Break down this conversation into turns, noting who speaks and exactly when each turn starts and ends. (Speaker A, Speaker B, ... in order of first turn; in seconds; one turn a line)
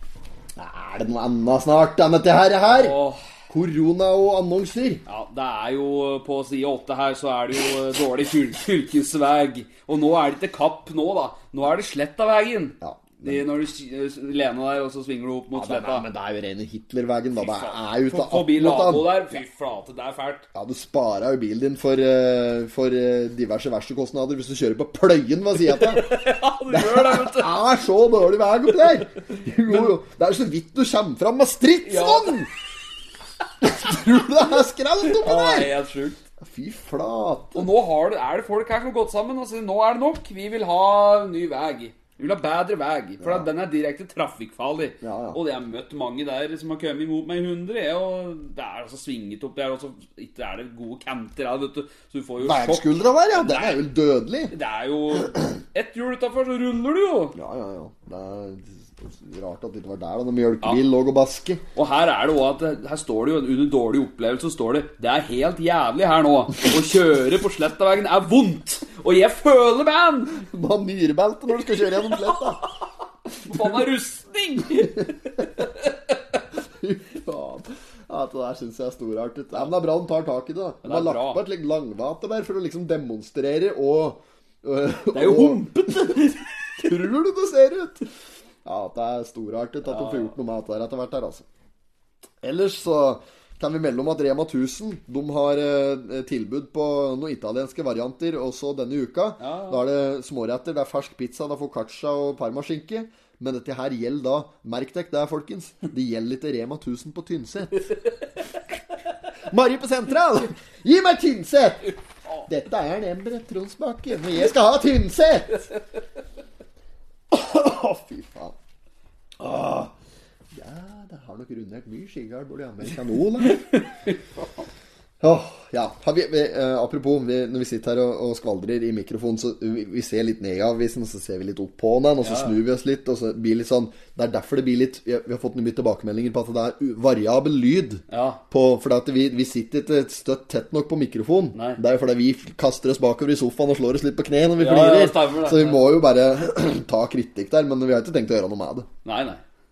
Speaker A: 0.6-3.0
Speaker B: 2.7-3.2
Speaker A: 3.5-5.0
Speaker B: 5.1-16.1
Speaker A: 12.8-13.4
Speaker A: 15.5-19.3
Speaker B: 17.4-20.5
Speaker A: 20.5-26.1
Speaker B: 25.7-27.6
Speaker A: 26.7-32.5
Speaker B: 31.8-32.4
Speaker A: 33.6-35.7
Speaker B: 35.0-36.2
Speaker A: 36.4-37.7
Speaker B: 37.5-53.8
Speaker A: 43.2-43.5
Speaker A: 45.0-45.4
Speaker A: 52.4-54.5
Speaker B: 54.5-57.4
Speaker A: 57.4-61.6
Speaker B: 61.8-70.5
Speaker A: 70.4-72.6
Speaker B: 73.4-75.9
Speaker A: 76.6-88.1
Speaker B: 80.8-81.4
Speaker B: 85.1-87.0
Speaker A: 88.7-91.5
Speaker B: 89.8-90.3
Speaker A: 92.4-107.9
Speaker B: 99.4-99.8
Speaker A: 109.4-115.7
Speaker A: 117.3-118.6
Speaker A: 119.4-119.9
Speaker A: 120.5-123.7
Speaker A: 125.2-148.9
Speaker B: 132.2-132.6
Speaker B: 138.1-138.4
Speaker B: 141.5-141.8
Speaker B: 144.6-145.8
Speaker B: 149.1-149.4